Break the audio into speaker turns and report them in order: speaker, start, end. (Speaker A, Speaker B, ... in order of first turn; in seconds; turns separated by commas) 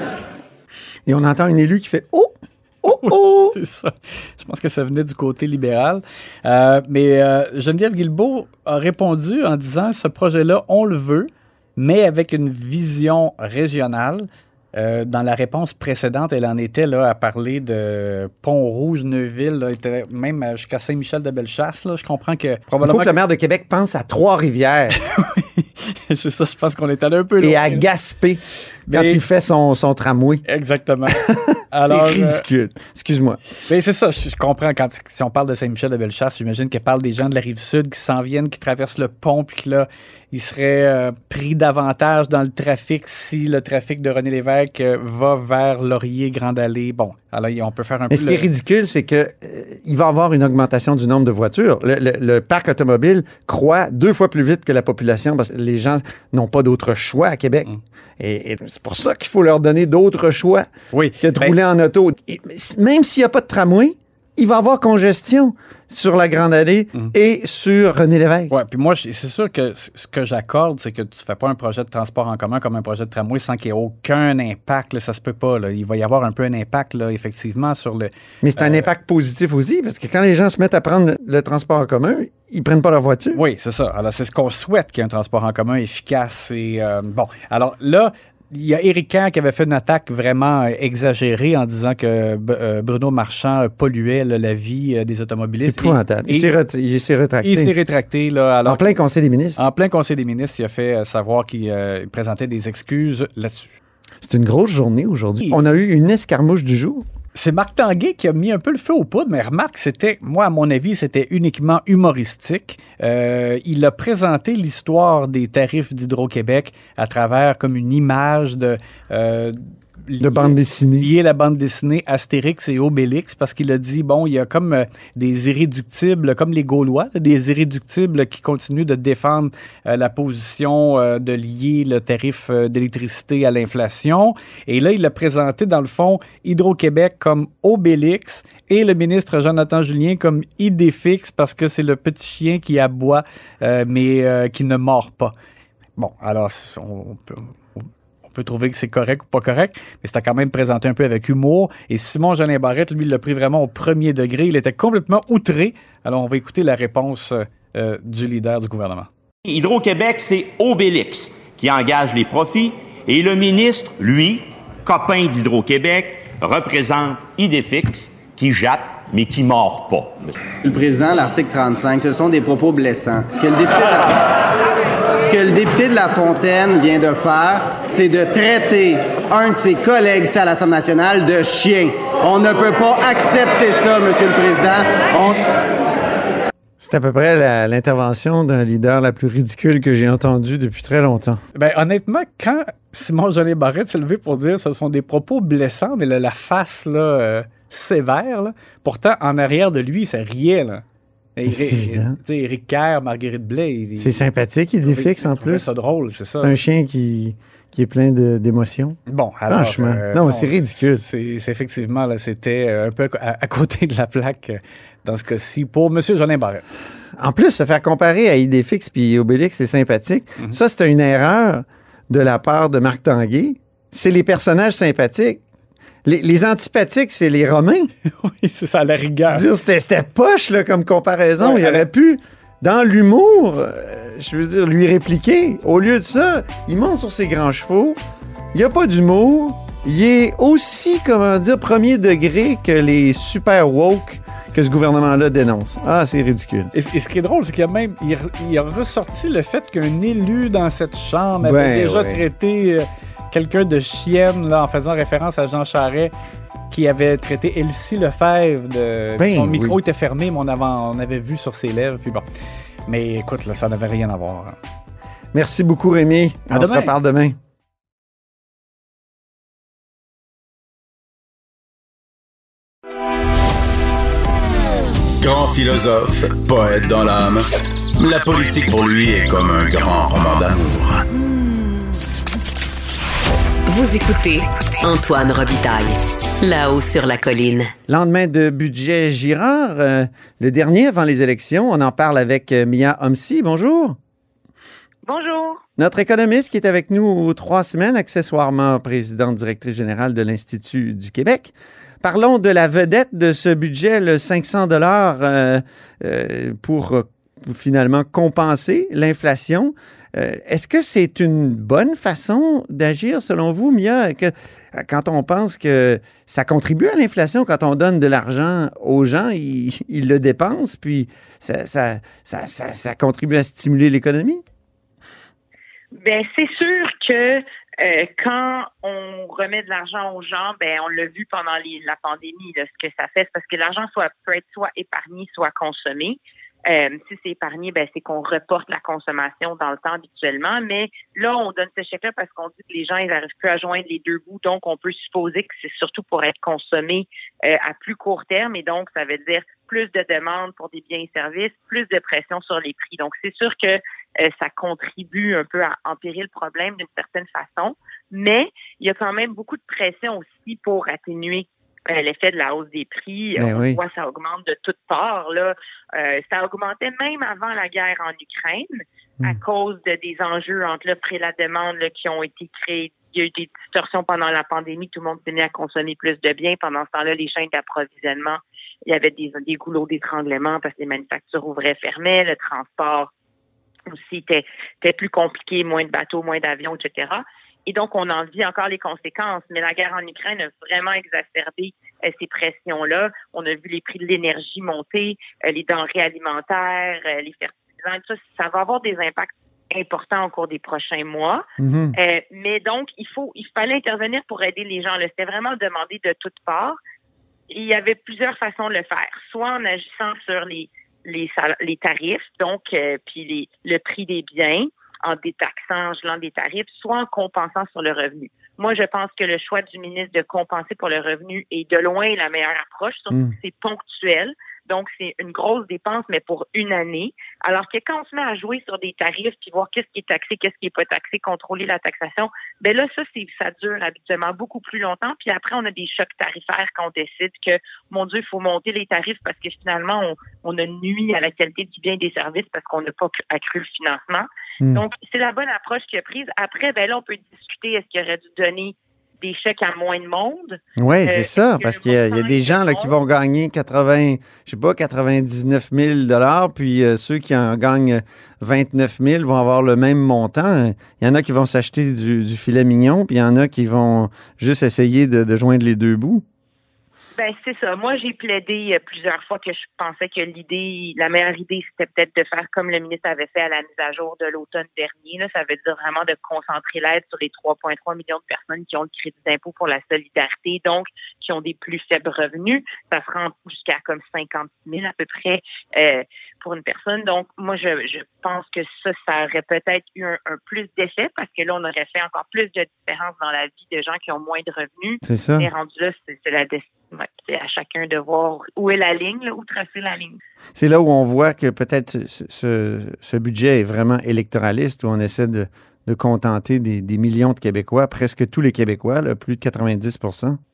Speaker A: 1.1-3.6, Speaker B: 3.0-23.1, Speaker A: 22.8-25.0, Speaker B: 25.0-27.9, Speaker A: 27.4-30.4, Speaker B: 28.9-29.2, Speaker B: 30.5-32.4, Speaker A: 31.1-33.4, Speaker B: 33.7-48.5, Speaker A: 48.1-60.7, Speaker B: 60.9-61.6, Speaker A: 61.2-68.5, Speaker B: 68.5-78.9, Speaker A: 78.4-83.4, Speaker B: 83.3-96.5, Speaker A: 95.6-97.7, Speaker B: 97.4-98.9, Speaker A: 98.7-99.6, Speaker B: 99.6-103.8, Speaker A: 104.2-107.0, Speaker B: 107.3-145.3, Speaker A: 120.2-121.1, Speaker B: 146.0-159.1, Speaker C: 159.4-170.4, Speaker D: 170.6-174.2, Speaker D: 175.2-185.4, Speaker A: 186.8-191.4, Speaker B: 191.6-200.8, Speaker B: 201.4-204.2, Speaker A: 201.5-202.2, Speaker A: 204.0-205.7, Speaker B: 204.8-206.5, Speaker A: 206.4-209.0, Speaker B: 209.1-216.7, Speaker A: 209.5-211.0, Speaker A: 217.2-225.4, Speaker A: 226.1-227.9, Speaker B: 228.1-229.5, Speaker A: 229.3-238.0, Speaker B: 231.4-231.8, Speaker A: 238.5-246.7, Speaker B: 246.7-256.1, Speaker A: 251.4-252.2, Speaker B: 256.7-262.2, Speaker A: 259.2-259.8, Speaker B: 262.9-264.6, Speaker A: 265.3-267.4, Speaker B: 266.5-266.9, Speaker E: 275.2-281.1, Speaker F: 283.7-287.7, Speaker A: 287.9-294.0, Speaker G: 295.1-295.6, Speaker A: 295.8-324.4, Speaker G: 325.9-383.1, Speaker A: 363.4-363.8, Speaker G: 383.9-401.4, Speaker A: 401.6-402.0, Speaker G: 402.0-406.8, Speaker G: 407.5-452.9, Speaker A: 450.8-466.2, Speaker G: 467.2-500.2, Speaker A: 495.1-495.5, Speaker A: 500.6-510.4